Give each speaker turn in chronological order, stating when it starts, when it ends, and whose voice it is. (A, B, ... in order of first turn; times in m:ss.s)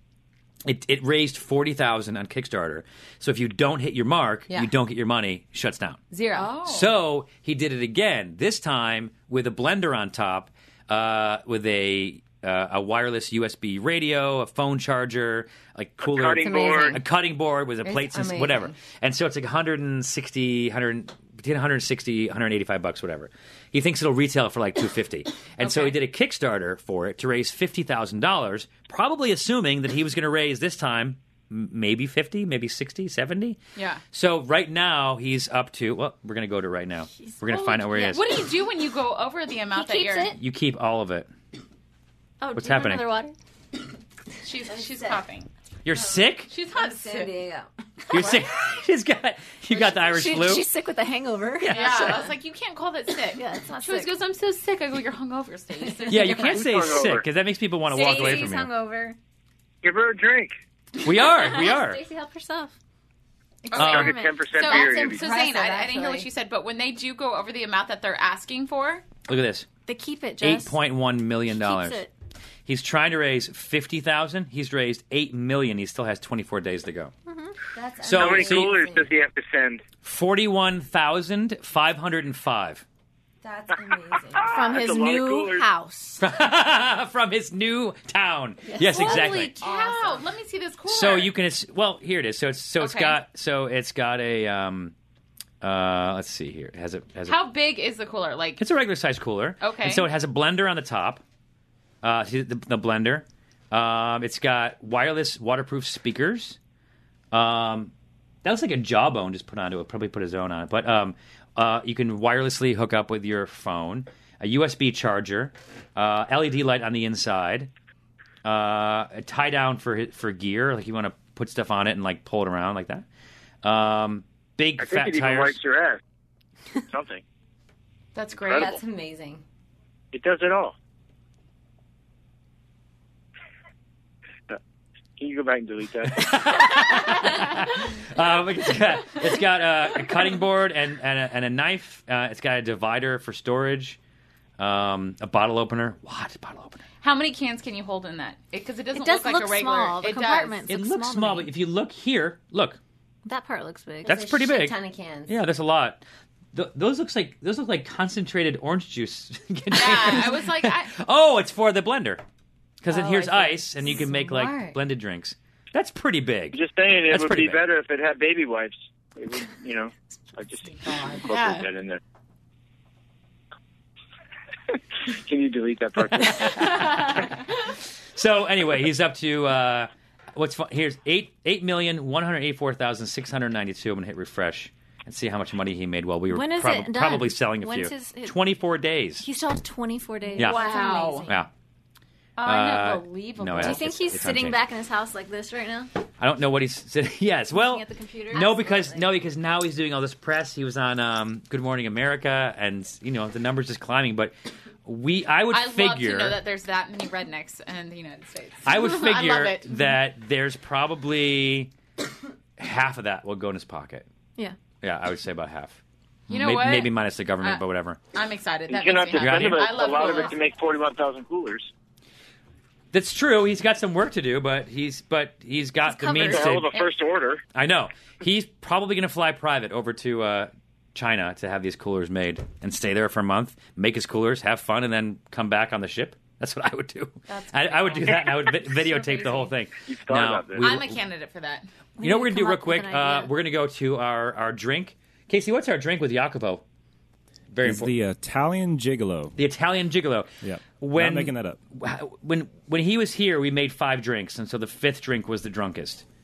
0:00.6-0:06.0 A
0:06.1-0:06.5 B
0:06.3-0:06.9 C
0:06.6-0:33.6 A
0:16.0-0:17.0 D
0:16.4-0:17.0 B
0:17.8-0:18.8 B
0:25.6-0:26.0 C
0:33.8-0:34.0 C
0:34.1-0:38.4 A
0:37.2-0:38.5 E
0:38.1-0:40.4 C
0:39.7-0:40.4 E
0:40.4-0:41.3 A
0:42.4-0:43.3 E
0:42.5-0:43.1 A
0:44.4-0:45.5 C
0:44.7-0:45.2 B
0:45.8-0:46.5 A
0:46.5-0:47.3 C
0:46.7-0:47.7 B
0:48.1-0:50.7 A
0:48.1-0:48.4 C
0:49.7-0:52.3 E
0:51.6-0:52.3 A
0:51.7-0:56.6 C
0:53.3-0:54.1 E
0:56.1-0:58.7 A
0:56.3-0:57.2 D
0:57.9-0:59.2 E
0:59.8-1:00.5 D
1:01.0-1:02.0 A
1:01.1-1:02.7 E
1:03.6-1:09.0 C
1:03.7-1:04.4 E
1:03.8-1:04.2 A
1:03.8-1:05.3 D
1:04.6-1:06.3 B
1:09.3-1:09.7 A
1:09.8-1:10.8 E
1:10.4-1:12.0 A
1:11.5-1:12.1 E
1:12.7-1:17.1 A
1:17.3-1:17.5 E
1:17.7-1:19.1 B
1:18.0-1:18.8 A
1:18.1-1:19.8 D
1:20.0-1:22.8 A
1:23.4-1:24.5 B
1:24.4-1:25.7 D
1:24.5-1:26.2 E
1:26.2-1:29.5 A
1:28.7-1:30.2 B
1:28.8-1:31.3 C
1:30.9-1:34.9 A
1:32.8-1:33.2 C
1:35.6-1:37.4 A
1:37.2-1:38.6 C
1:38.6-1:41.2 A
1:39.6-1:40.1 C
1:42.0-1:46.6 A
1:47.3-1:47.9 A
1:48.4-1:57.7 A
1:58.4-2:03.0 A
2:03.6-2:05.6 A
2:04.8-2:06.0 D
2:06.9-2:07.2 D
2:08.1-2:08.7 C
2:08.4-2:08.7 D
2:08.5-2:09.4 B
2:10.1-2:10.7 D
2:15.2-2:16.4 D
2:16.1-2:24.0 A
2:24.6-2:26.8 A
2:27.0-2:30.6 C
2:28.9-2:31.5 E
2:30.7-2:32.8 A
2:33.2-2:34.2 E
2:34.0-2:35.4 B
2:34.0-2:34.8 A
2:35.3-2:36.0 A
2:36.5-2:42.2 A
2:39.7-2:40.9 C
2:42.8-2:47.6 A
2:43.0-2:44.8 B
2:46.5-2:52.0 D
2:51.3-2:51.6 C
2:55.0-2:57.0 D
2:56.7-2:57.2 C
2:58.2-3:09.2 A
3:06.3-3:08.4 E
3:09.2-3:11.3 E
3:10.4-3:11.3 C
3:10.7-3:11.2 B
3:12.4-3:13.8 C
3:12.4-3:14.6 A
3:13.6-3:15.9 E
3:16.2-3:24.3 A
3:17.5-3:18.9 E
3:24.8-3:26.4 A
3:25.5-3:29.7 C
3:28.6-3:31.7 A
3:32.6-3:34.0 A
3:34.8-3:38.0 A
3:36.3-3:37.6 C
3:38.1-3:40.4 C
3:38.7-3:41.7 D
3:39.2-3:40.0 A
3:42.9-3:46.7 A
3:45.8-3:46.8 E
3:46.2-3:47.4 D
3:47.5-4:01.0 A
3:57.3-3:59.5 E
3:59.8-4:00.7 D
4:00.6-4:01.7 C
4:02.0-4:03.3 E
4:02.0-4:06.6 A
4:07.5-4:07.9 A
4:07.6-4:09.4 F
4:09.4-4:16.0 A
4:10.4-4:11.6 F